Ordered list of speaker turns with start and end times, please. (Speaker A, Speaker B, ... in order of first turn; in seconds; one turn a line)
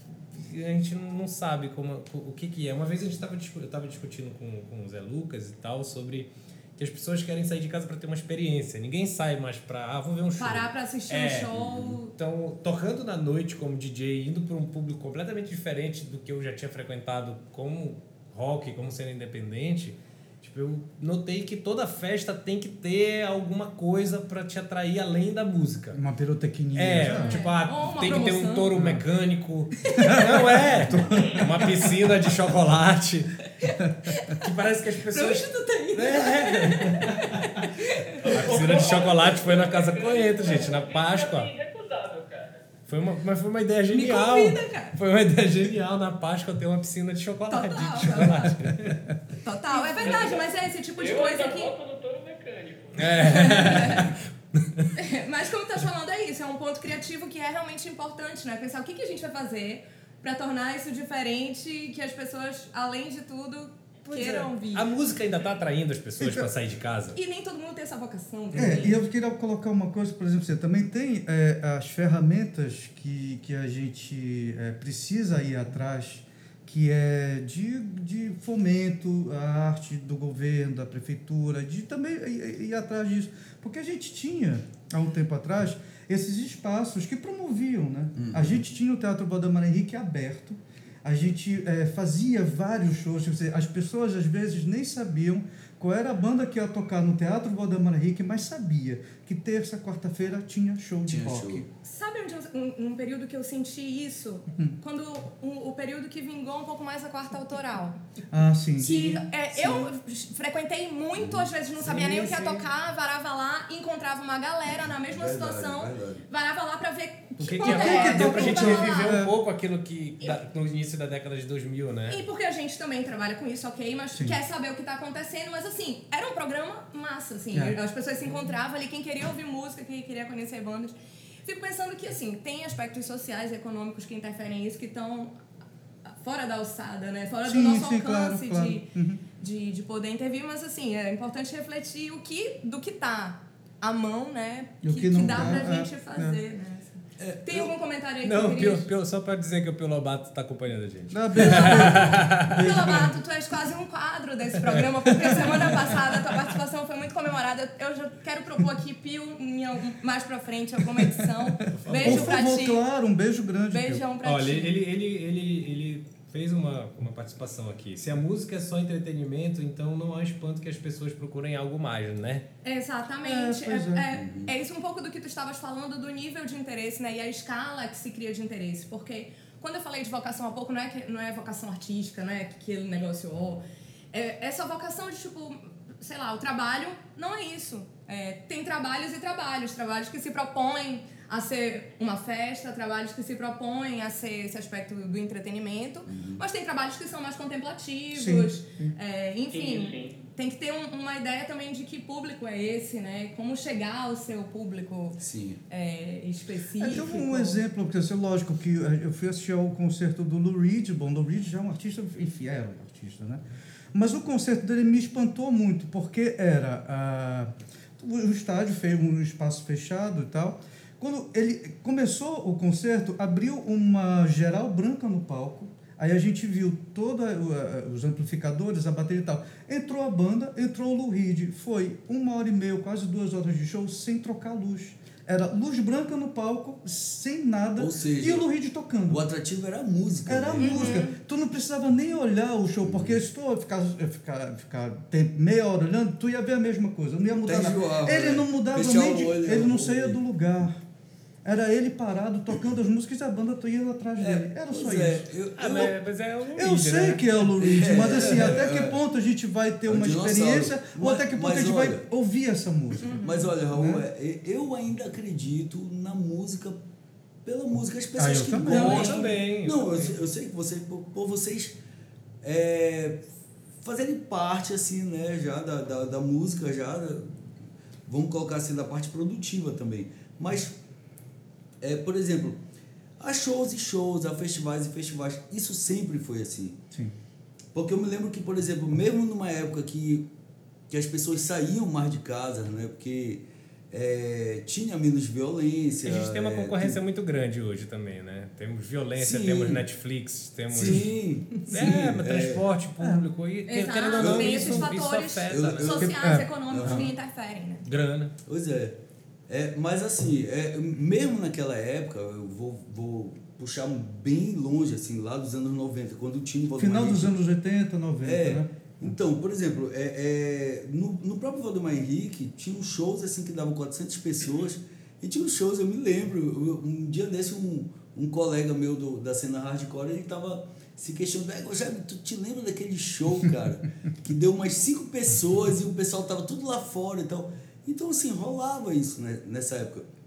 Speaker A: 0.3-11.6
Speaker B: 10.4-12.1
Speaker C: 11.5-12.0
Speaker A: 12.1-26.0
Speaker D: 25.9-27.4
Speaker A: 26.7-33.5
Speaker B: 27.1-28.7
Speaker D: 28.7-29.0
Speaker B: 29.8-30.4
Speaker D: 30.0-31.6
Speaker B: 33.6-34.4
Speaker A: 34.3-37.7
Speaker B: 35.1-38.2
Speaker E: 38.1-42.6
Speaker A: 38.2-41.5
Speaker A: 42.9-49.1
Speaker B: 43.9-44.9
Speaker B: 47.5-48.7
Speaker B: 49.4-51.7
Speaker E: 49.7-53.9
Speaker A: 53.0-54.9
Speaker B: 53.2-54.1
Speaker B: 54.9-64.9
Speaker A: 64.1-67.2
Speaker D: 66.2-66.5
Speaker B: 67.1-69.0
Speaker D: 68.5-101.7
Speaker C: 88.2-88.6
Speaker C: 101.1-101.7
Speaker B: 101.8-108.0
Speaker D: 108.3-109.2
Speaker B: 108.8-119.2
Speaker C: 109.0-109.8
Speaker C: 111.2-111.5
Speaker A: 111.8-112.6
Speaker C: 115.1-116.2
Speaker A: 117.4-122.2
Speaker D: 117.6-119.3
Speaker B: 122.1-135.3
Speaker B: 136.1-148.8
Speaker D: 137.4-139.2
Speaker D: 144.8-146.4
Speaker C: 147.2-147.7
Speaker A: 148.2-152.7
Speaker D: 151.1-153.2
Speaker B: 151.3-162.8
Speaker A: 161.7-162.3
Speaker D: 162.0-164.0
Speaker B: 163.7-164.8
Speaker A: 164.2-172.4
Speaker B: 172.6-207.6
Speaker D: 173.2-174.1
Speaker C: 174.1-174.5
Speaker C: 196.1-196.4
Speaker D: 198.1-198.9
Speaker E: 199.5-200.2
Speaker C: 205.2-205.6
Speaker D: 206.8-213.4
Speaker D: 213.9-239.2
Speaker C: 237.8-238.4
Speaker C: 239.1-241.0
Speaker D: 240.2-250.8
Speaker B: 240.6-241.2
Speaker C: 242.8-243.2
Speaker C: 247.5-250.2
Speaker D: 251.4-255.2
Speaker C: 254.2-255.9
Speaker A: 255.6-258.6
Speaker D: 256.5-264.0
Speaker C: 257.6-259.0
Speaker C: 259.9-262.0
Speaker B: 263.0-263.5
Speaker C: 263.1-266.8
Speaker C: 267.4-271.8
Speaker D: 268.2-269.1
Speaker A: 268.7-270.1
Speaker B: 268.8-269.1
Speaker C: 272.4-273.2
Speaker C: 273.8-277.3
Speaker C: 278.1-280.7
Speaker C: 281.8-282.6
Speaker C: 283.2-286.8
Speaker C: 287.7-290.3
Speaker C: 290.9-297.0
Speaker A: 296.0-306.0
Speaker C: 299.2-299.8
Speaker C: 300.7-302.6
Speaker D: 303.0-303.2
Speaker B: 303.6-307.9
Speaker C: 304.1-304.9
Speaker C: 305.5-306.1
Speaker D: 305.9-307.1
Speaker C: 306.7-307.1
Speaker A: 307.8-308.3
Speaker C: 308.4-309.0
Speaker C: 309.5-317.4
Speaker D: 316.8-319.1
Speaker C: 318.2-340.1